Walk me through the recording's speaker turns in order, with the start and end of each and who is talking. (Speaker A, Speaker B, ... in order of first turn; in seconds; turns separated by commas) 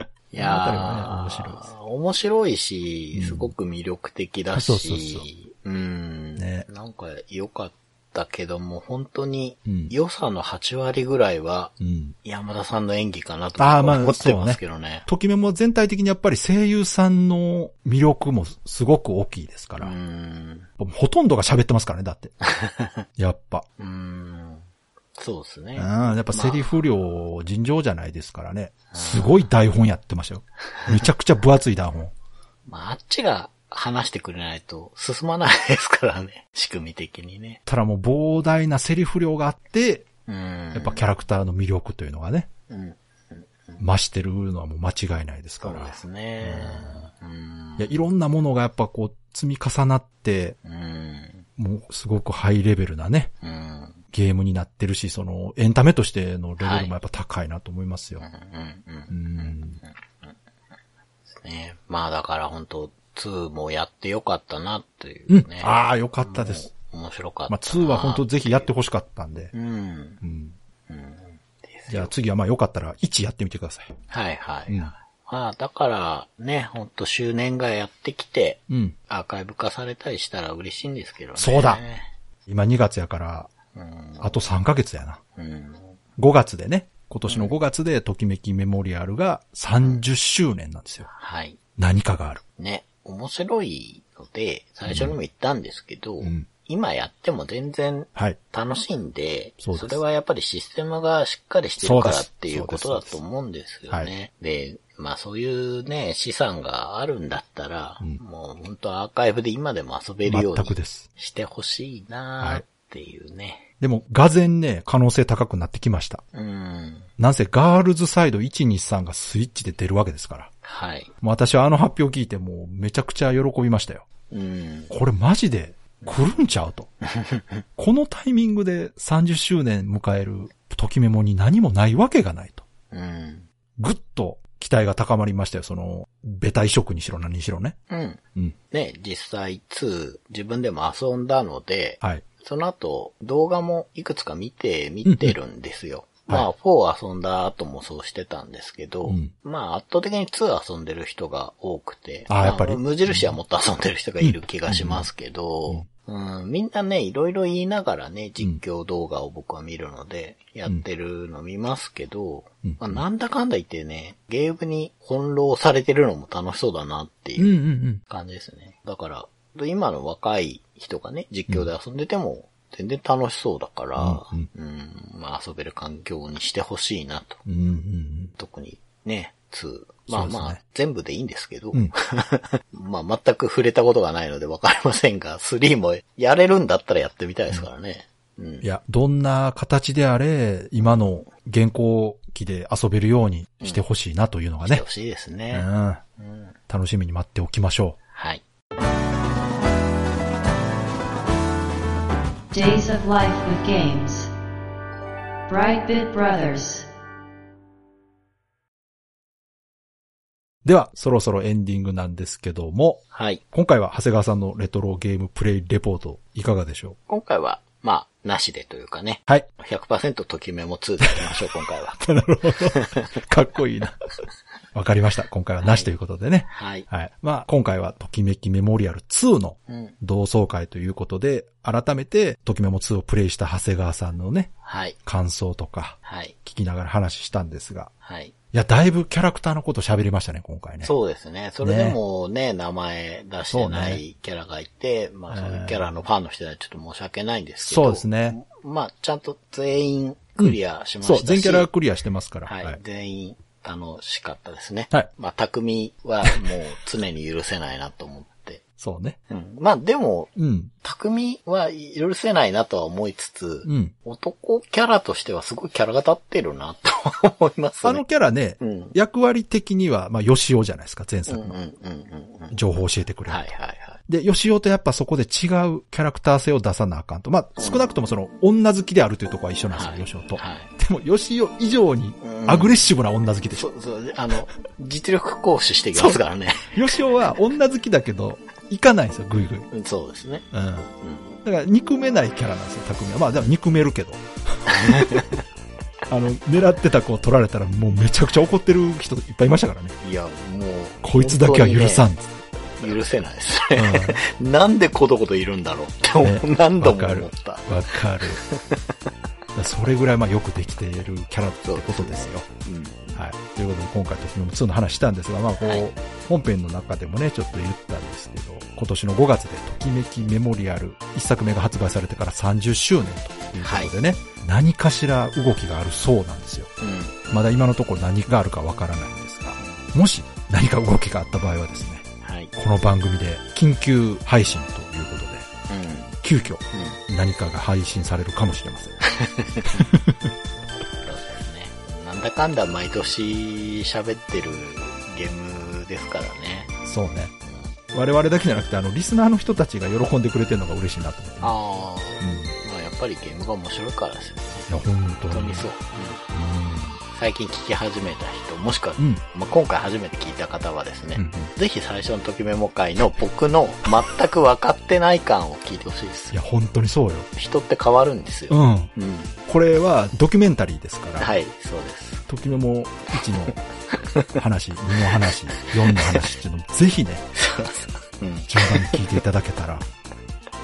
Speaker A: 0.3-15.1, Speaker B: 0.4-1.6, Speaker B: 3.1-3.5, Speaker B: 4.5-5.3, Speaker B: 6.4-6.7, Speaker B: 9.7-9.9, Speaker B: 11.8-12.2, Speaker B: 13.6-19.9, Speaker A: 19.8-20.7, Speaker B: 20.8-22.4, Speaker A: 22.4-23.0, Speaker B: 23.2-23.7, Speaker A: 23.8-24.6, Speaker A: 25.2-26.8, Speaker B: 25.8-32.1, Speaker A: 28.9-29.5, Speaker A: 32.7-37.6, Speaker B: 37.7-40.1, Speaker A: 40.3-41.0, Speaker B: 40.7-42.5, Speaker A: 42.7-43.8, Speaker B: 43.8-47.1, Speaker A: 45.6-48.0, Speaker B: 47.8-50.6, Speaker A: 50.6-51.5, Speaker B: 51.6-53.3, Speaker A: 53.4-54.0, Speaker B: 54.1-58.3, Speaker A: 56.6-56.9, Speaker A: 58.2-60.4, Speaker B: 59.1-59.8, Speaker A: 61.3-68.7, Speaker B: 65.3-66.7, Speaker B: 67.5-69.5, Speaker A: 69.5-70.2, Speaker B: 70.2-70.6, Speaker A: 70.9-72.1, Speaker B: 71.9-73.9, Speaker A: 74.1-82.1, Speaker B: 78.7-79.0, Speaker B: 81.4-81.8, Speaker B: 82.5-83.5, Speaker A: 83.8-84.4, Speaker B: 84.2-85.2, Speaker A: 85.4-86.0, Speaker B: 86.2-91.1, Speaker A: 87.3-87.5, Speaker A: 91.0-91.6, Speaker B: 91.8-92.4, Speaker A: 92.6-113.7, Speaker B: 94.9-95.2, Speaker B: 96.2-96.5, Speaker B: 99.6-100.0, Speaker B: 101.8-103.2, Speaker B: 110.3-111.1, Speaker B: 113.8-116.2, Speaker A: 116.3-117.1, Speaker B: 117.2-120.5, Speaker A: 120.6-121.1, Speaker B: 121.2-124.0, Speaker A: 124.3-124.9, Speaker B: 124.9-126.9, Speaker A: 127.0-127.6, Speaker B: 127.8-132.7, Speaker A: 132.9-133.5, Speaker B: 133.8-137.8, Speaker A: 137.9-177.4, Speaker B: 145.1-145.4, Speaker B: 149.1-149.3, Speaker B: 152.3-153.4, Speaker B: 154.2-155.1, Speaker B: 162.6-163.0, Speaker B: 167.4-168.0, Speaker B: 174.0-174.5, Speaker B: 177.5-178.3, Speaker A: 178.3-188.7, Speaker B: 180.1-180.6, Speaker B: 188.6-194.8, Speaker A: 194.6-196.6, Speaker B: 195.5-196.0, Speaker B: 196.7-198.0, Speaker A: 198.1-198.4, Speaker C: 202.5-204.3, Speaker C: 205.5-206.9, Speaker B: 210.6-217.0, Speaker A: 213.1-213.4, Speaker A: 217.1-222.0, Speaker B: 221.0-221.3, Speaker B: 222.0-224.0, Speaker A: 222.7-223.0, Speaker B: 224.7-234.5, Speaker A: 225.6-225.9, Speaker A: 226.5-226.9, Speaker A: 229.7-230.0, Speaker A: 234.6-235.0, Speaker B: 235.1-237.9, Speaker A: 236.1-236.4, Speaker A: 238.0-238.3, Speaker B: 238.5-240.9, Speaker A: 240.8-251.7, Speaker B: 241.6-242.0, Speaker B: 243.5-244.0, Speaker B: 245.3-245.9, Speaker B: 247.6-248.4, Speaker B: 250.4-252.8, Speaker A: 252.4-258.6, Speaker B: 258.8-259.2, Speaker A: 259.3-268.0, Speaker B: 260.4-260.7, Speaker B: 263.7-263.9, Speaker B: 267.8-271.6, Speaker A: 268.6-269.0, Speaker A: 271.3-274.0, Speaker B: 272.5-273.5, Speaker B: 274.1-283.7, Speaker A: 279.7-280.7, Speaker A: 282.2-282.8, Speaker A: 283.5-286.8, Speaker B: 285.9-286.2, Speaker B: 286.7-289.7, Speaker A: 289.7-290.5, Speaker B: 290.5-290.9, Speaker A: 291.0-291.4, Speaker B: 291.4-295.3, Speaker A: 294.7-295.4, Speaker B: 296.1-300.0, Speaker A: 300.0-302.1, Speaker B: 301.0-302.4, Speaker A: 302.8-308.9, Speaker B: 303.8-304.2, Speaker B: 306.2-308.4, Speaker B: 309.6-312.5, Speaker A: 311.6-313.1, Speaker B: 313.1-326.7, Speaker A: 315.6-315.9, Speaker A: 323.6-323.9, Speaker A: 326.8-327.2, Speaker B: 327.3-335.5, Speaker A: 329.6-329.8, Speaker A: 332.2-332.5, Speaker A: 335.7-336.2, Speaker B: 336.2-339.0, Speaker A: 336.7-337.0, Speaker A: 339.1-339.9, Speaker B: 339.8-340.3, Speaker A: 341.0-346.8, Speaker B: 346.8-347.3, Speaker B: 347.9-351.6, Speaker A: 351.4-354.7, Speaker B: 352.2-352.5, Speaker B: 354.7-355.7, Speaker A: 355.3-356.2, Speaker B: 356.3-357.0, Speaker A: 357.1-366.4, Speaker B: 361.2-361.5, Speaker B: 366.3-367.3, Speaker A: 367.4-369.4, Speaker B: 368.5-368.9, Speaker B: 369.5-371.3, Speaker A: 371.2-372.3, Speaker B: 372.3-373.6, Speaker A: 374.1-374.4, Speaker B: 374.4-377.3, Speaker A: 374.9-376.3, Speaker A: 377.4-379.2, Speaker B: 378.5-379.9